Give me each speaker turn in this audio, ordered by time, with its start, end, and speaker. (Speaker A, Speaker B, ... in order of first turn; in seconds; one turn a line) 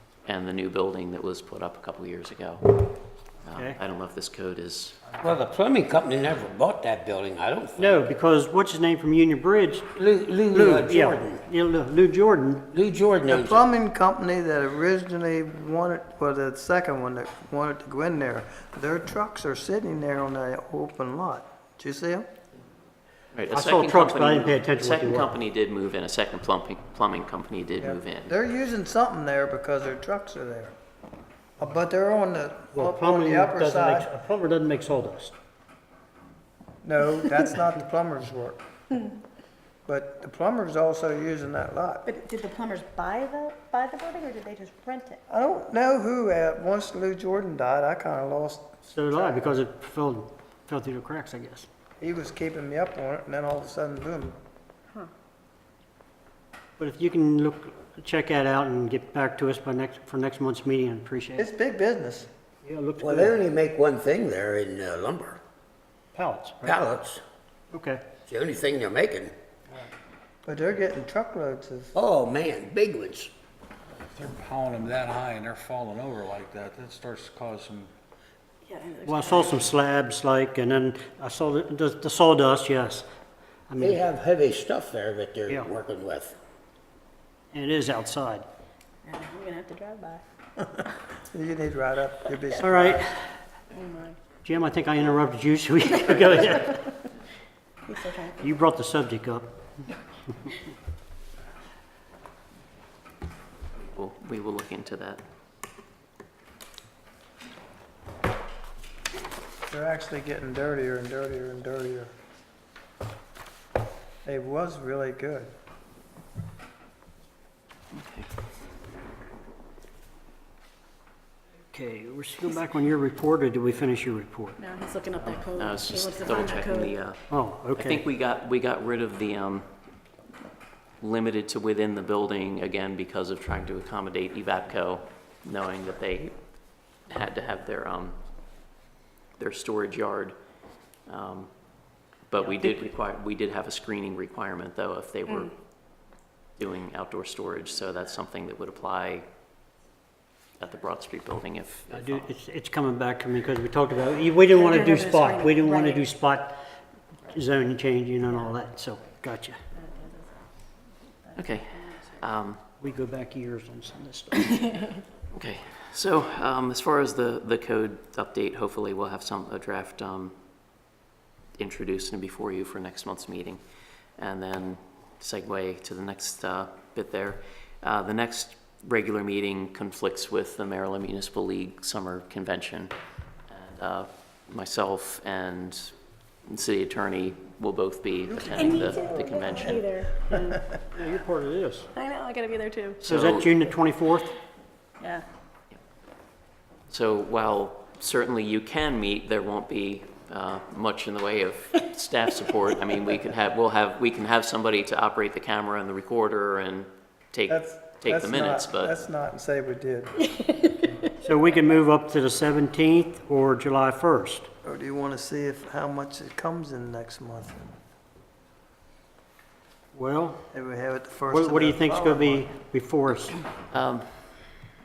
Speaker A: 0.3-2.8
Speaker A: 3.4-5.0
Speaker B: 5.2-8.0
Speaker C: 7.8-9.9
Speaker B: 9.9-11.4
Speaker C: 10.5-12.7
Speaker B: 12.7-13.7
Speaker D: 13.3-22.3
Speaker A: 23.3-28.4
Speaker C: 23.5-25.3
Speaker D: 27.8-30.8
Speaker D: 31.6-34.1
Speaker C: 32.7-35.4
Speaker D: 36.8-38.6
Speaker D: 39.9-42.1
Speaker E: 42.0-45.2
Speaker D: 45.3-49.5
Speaker C: 48.9-51.7
Speaker D: 52.0-54.4
Speaker C: 56.8-61.5
Speaker D: 61.4-62.3
Speaker C: 62.6-63.4
Speaker B: 63.0-65.4
Speaker C: 66.2-66.8
Speaker B: 66.6-67.2
Speaker C: 67.7-68.1
Speaker B: 68.3-69.3
Speaker D: 70.5-72.0
Speaker B: 71.9-73.3
Speaker F: 74.1-77.9
Speaker E: 78.7-79.7
Speaker C: 79.1-83.1
Speaker C: 83.7-84.0
Speaker B: 83.8-86.4
Speaker C: 87.5-88.5
Speaker E: 89.0-90.2
Speaker D: 91.2-93.1
Speaker C: 92.6-93.4
Speaker E: 93.7-94.2
Speaker C: 94.5-96.9
Speaker E: 97.9-98.6
Speaker C: 98.4-99.5
Speaker A: 103.9-105.2
Speaker D: 109.7-112.1
Speaker D: 114.2-115.5
Speaker A: 117.9-118.3
Speaker C: 121.7-124.6
Speaker E: 124.6-126.9
Speaker A: 125.5-127.2
Speaker C: 127.3-128.0
Speaker A: 127.8-129.7
Speaker A: 131.0-136.4
Speaker A: 137.1-138.2
Speaker A: 139.4-140.4
Speaker A: 141.1-141.5
Speaker A: 142.3-145.5
Speaker A: 146.6-149.3
Speaker A: 150.6-152.3
Speaker C: 151.9-156.6
Speaker E: 154.5-156.1
Speaker C: 157.3-159.6
Speaker E: 159.7-160.4
Speaker E: 161.3-161.8
Speaker A: 161.4-162.6
Speaker C: 162.8-164.7
Speaker A: 165.3-170.4
Speaker A: 171.6-173.6
Speaker A: 174.2-182.9
Speaker A: 183.5-185.9
Speaker A: 186.5-189.8
Speaker D: 188.3-189.7
Speaker E: 188.6-190.6
Speaker C: 190.9-191.9
Speaker E: 191.9-193.0
Speaker C: 193.0-194.3
Speaker A: 193.0-193.5
Speaker E: 195.0-195.2
Speaker A: 196.9-209.1
Speaker D: 207.5-210.3
Speaker C: 211.2-214.5
Speaker D: 214.6-217.7
Speaker C: 219.9-220.5
Speaker D: 220.5-222.4
Speaker C: 221.3-223.4
Speaker A: 223.7-224.1